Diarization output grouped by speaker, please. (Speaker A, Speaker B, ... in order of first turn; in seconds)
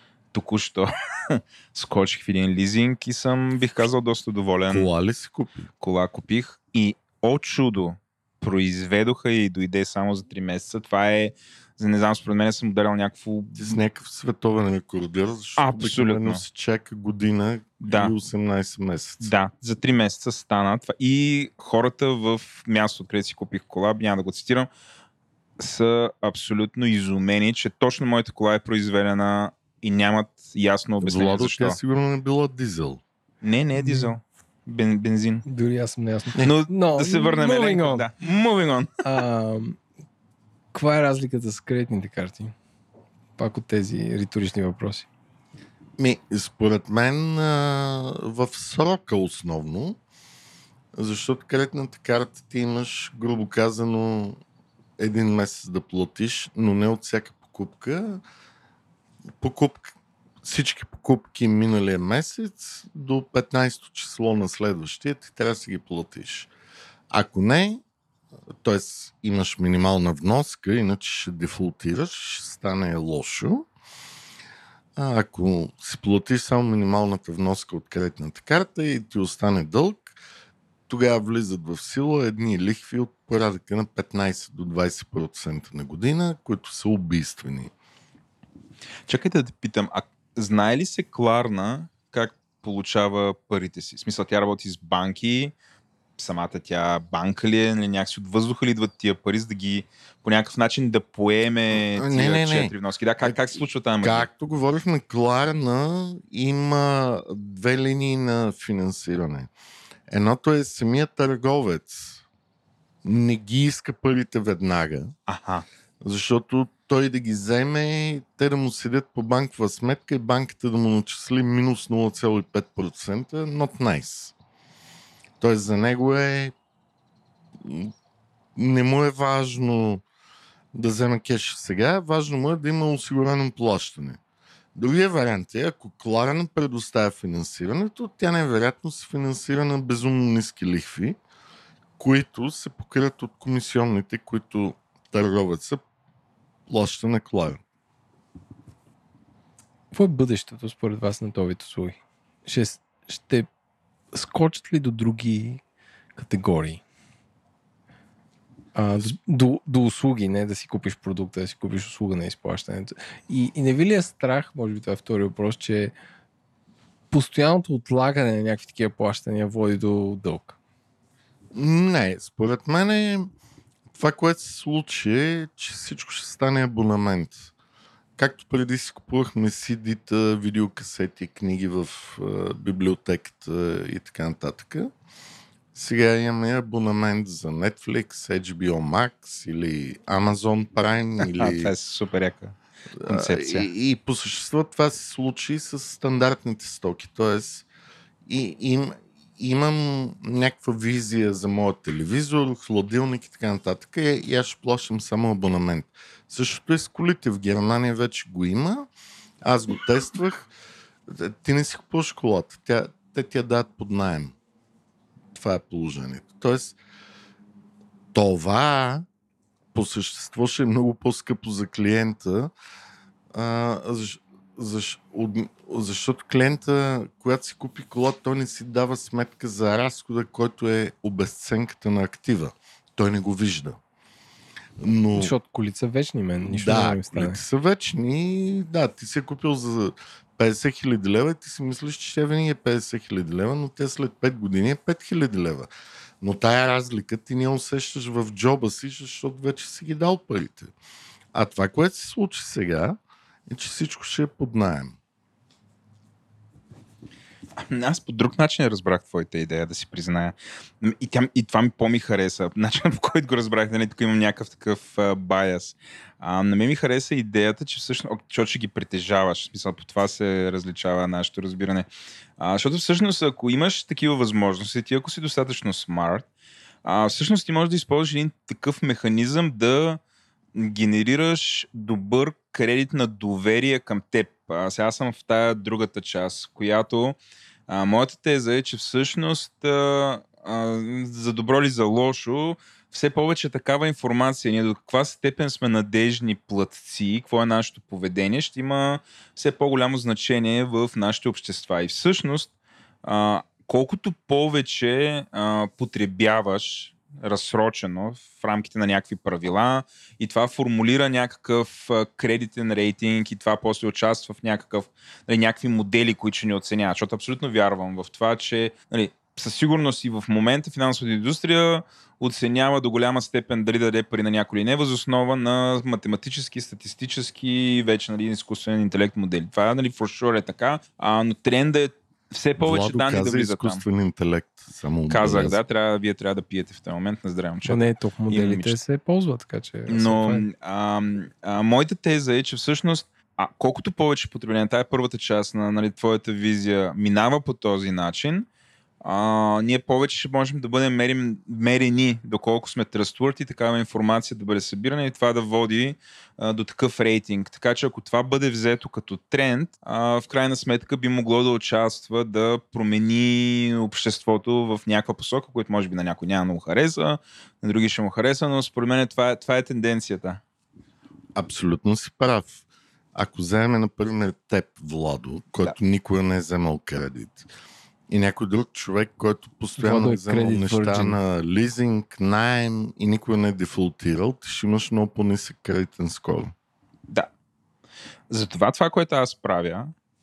Speaker A: 0.3-4.9, 5.8-13.8, 15.6-16.4, 17.8-18.1, 19.2-24.7, 25.6-31.8, 33.4-35.5, 36.4-38.9, 89.1-95.5, 96.2-104.3, 115.3-115.7, 191.2-193.7, 257.6-276.3, 276.8-280.0, 280.5-287.2, 287.7-302.5, 303.0-333.8, 335.1-338.8, 339.9-348.5, 349.0-370.4, 388.3-389.9
Speaker B: 4.7-5.7, 13.5-19.3, 31.0-33.0, 46.0-50.0, 51.0-54.4, 55.0-58.2, 59.4-66.5, 67.1-67.8, 68.6-73.7, 75.0-80.1, 80.9-87.7, 101.7-102.7, 104.0-109.5, 110.1-112.2, 113.0-115.1, 116.0-124.3, 125.4-126.5, 127.6-127.9, 128.6-130.0, 130.7-134.2, 134.7-141.2, 142.0-145.8, 146.7-147.6, 171.5-173.3, 173.9-177.5, 178.2-184.9, 185.7-191.7, 192.9-197.7, 198.3-208.9, 209.4-210.5, 211.1-214.3, 215.3-216.8, 218.1-219.1, 219.7-222.5, 223.3-233.8, 234.8-235.3, 236.5-245.7, 246.2-250.7, 251.3-253.0, 253.5-254.9, 332.6-335.6, 371.4-372.6, 373.1-377.5, 378.1-386.5
Speaker C: 33.8-34.1, 35.5-38.1, 39.0-39.8, 40.7-42.5, 43.4-45.1, 149.9-153.5, 154.1-155.6, 156.1-156.8, 158.7-165.9, 167.1-170.6, 235.1-237.4, 337.6-340.4, 379.8-381.2